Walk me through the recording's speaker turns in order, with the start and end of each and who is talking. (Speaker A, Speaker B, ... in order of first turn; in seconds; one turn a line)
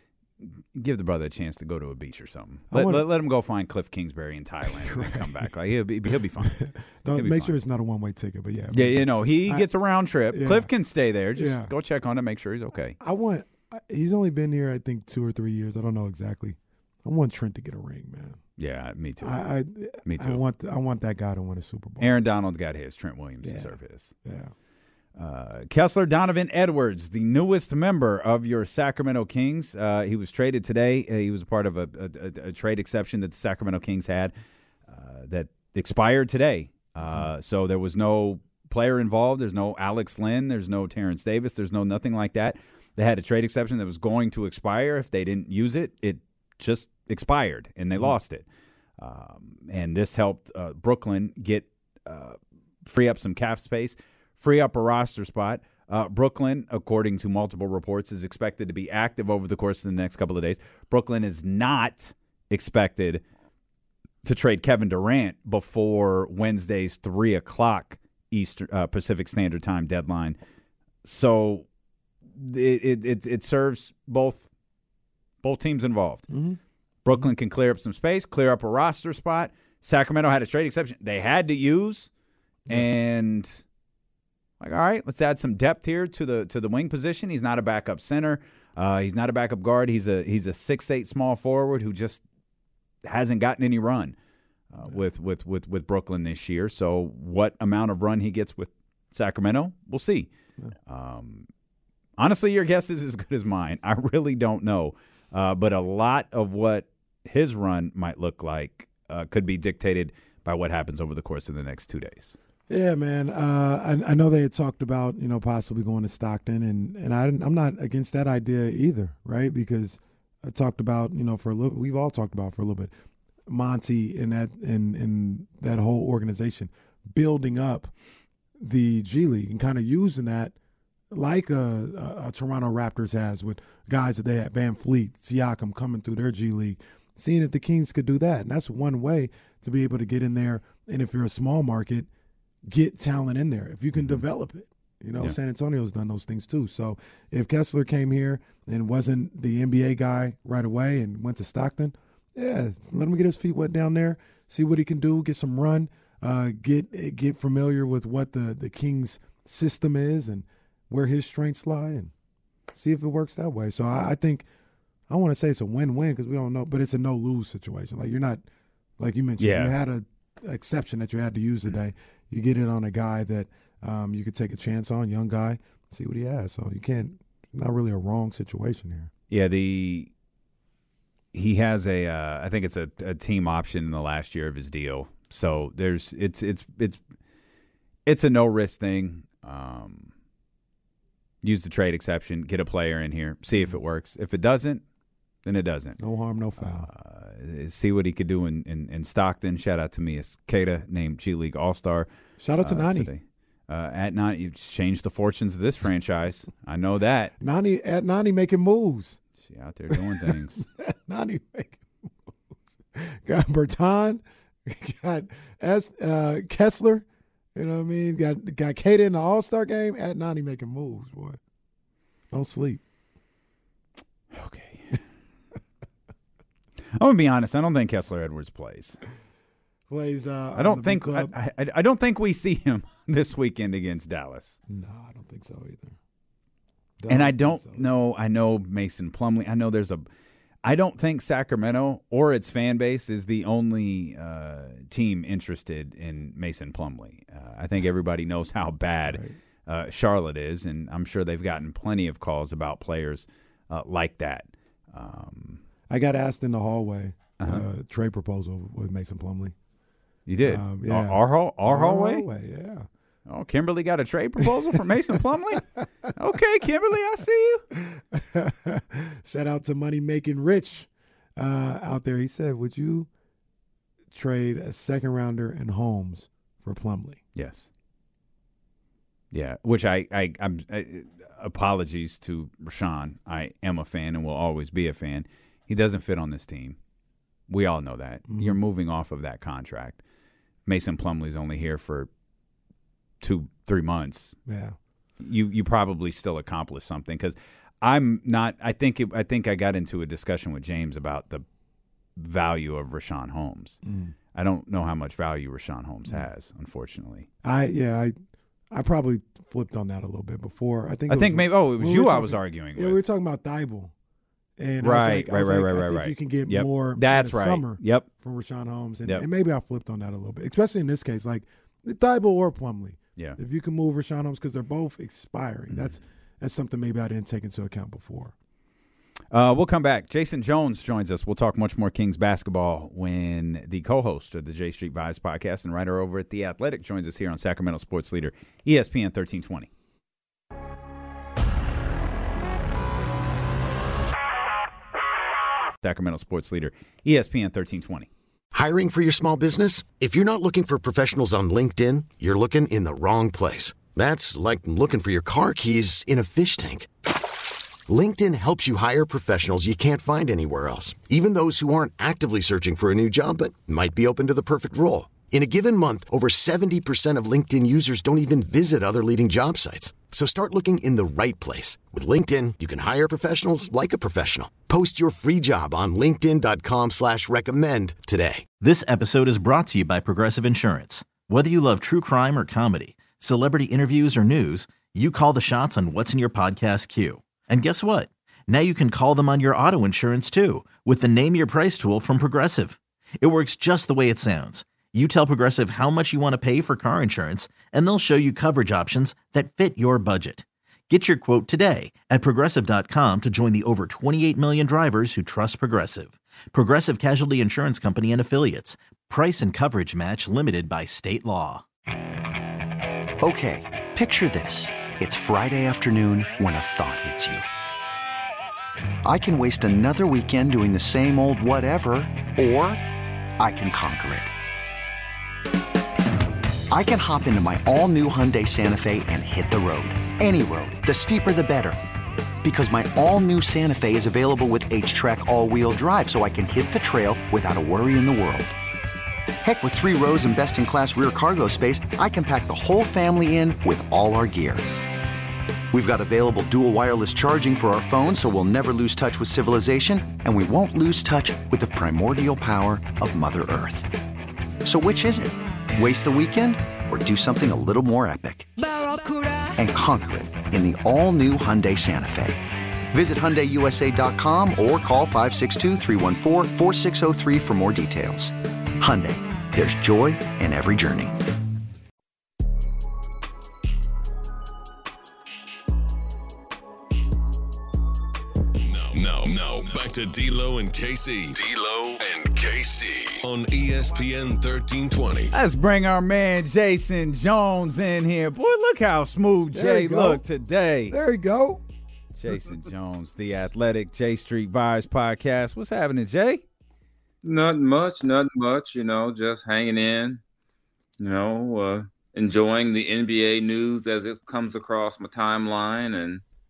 Speaker A: 0.4-6.6
Speaker B: 2.7-3.0
Speaker B: 4.7-5.5
Speaker B: 6.4-9.7
Speaker A: 7.2-7.6
Speaker A: 8.7-13.0
Speaker B: 10.3-10.7
Speaker B: 11.3-11.7
Speaker B: 13.0-18.4
Speaker A: 18.6-19.4
Speaker B: 19.2-22.1
Speaker A: 20.0-20.4
Speaker A: 22.0-24.1
Speaker B: 23.4-24.5
Speaker A: 25.2-34.3
Speaker A: 34.9-48.5
Speaker A: 49.0-63.2
Speaker A: 64.2-70.4
Speaker A: 71.0-71.7
Speaker A: 72.3-74.5
Speaker A: 75.4-76.3
Speaker B: 76.3-76.6
Speaker A: 77.0-82.1
Speaker A: 82.7-83.6
Speaker A: 84.6-92.2
Speaker A: 93.0-94.2
Speaker A: 94.7-100.3
Speaker A: 100.9-101.5
Speaker A: 102.2-112.4
Speaker B: 112.7-122.9
Speaker B: 123.5-127.9
Speaker B: 128.6-130.6
Speaker B: 131.1-142.1
Speaker B: 142.7-162.1
Speaker B: 162.7-164.5
Speaker B: 165.1-168.4
Speaker B: 169.0-179.1
Speaker A: 169.4-169.8
Speaker A: 179.3-180.1
Speaker A: 181.3-187.0
Speaker A: 188.1-190.1
Speaker A: 191.4-194.8
Speaker A: 195.4-196.0
Speaker B: 196.0-196.9
Speaker A: 196.8-207.3
Speaker B: 202.4-203.1
Speaker B: 207.4-209.2
Speaker A: 209.4-210.7
Speaker B: 209.9-221.4
Speaker B: 222.3-222.8
Speaker A: 224.3-225.0
Speaker A: 227.0-229.0
Speaker B: 229.9-231.3
Speaker A: 230.6-234.6
Speaker B: 234.7-236.0
Speaker B: 237.0-237.8
Speaker A: 237.1-240.0
Speaker A: 240.6-255.6
Speaker B: 249.1-249.4
Speaker B: 255.9-259.6
Speaker A: 257.4-257.6
Speaker A: 260.3-262.3
Speaker B: 260.4-262.9
Speaker A: 263.3-267.6
Speaker B: 267.8-273.1
Speaker B: 274.1-277.2
Speaker A: 277.4-277.7
Speaker A: 279.3-286.8
Speaker A: 287.5-290.0
Speaker B: 288.3-288.6
Speaker A: 290.7-292.1
Speaker A: 293.2-294.4
Speaker B: 294.5-294.8
Speaker A: 295.2-301.4
Speaker A: 302.2-303.8
Speaker B: 303.8-304.1
Speaker A: 304.3-307.3
Speaker B: 307.4-308.1
Speaker B: 308.7-313.9
Speaker A: 311.1-313.0
Speaker B: 314.6-328.3
Speaker A: 314.8-318.1
Speaker A: 325.7-325.9
Speaker A: 329.3-339.7
Speaker A: 345.8-348.1
Speaker C: 348.5-356.9
Speaker C: 357.9-378.5
Speaker D: 378.6-411.6
Speaker E: 413.2-417.4
Speaker E: 419.0-422.8
Speaker E: 423.4-424.3
Speaker E: 426.7-431.8
Speaker E: 432.4-438.5
Speaker E: 439.4-444.7
Speaker E: 445.7-453.9
Speaker E: 454.6-458.5
Speaker E: 459.6-462.4
Speaker E: 462.9-471.2
Speaker F: 478.7-485.3
Speaker A: 485.3-491.0
Speaker B: 489.5-490.2
Speaker B: 490.9-491.6
Speaker A: 492.2-496.4
Speaker G: 497.2-500.2
Speaker G: 501.0-506.2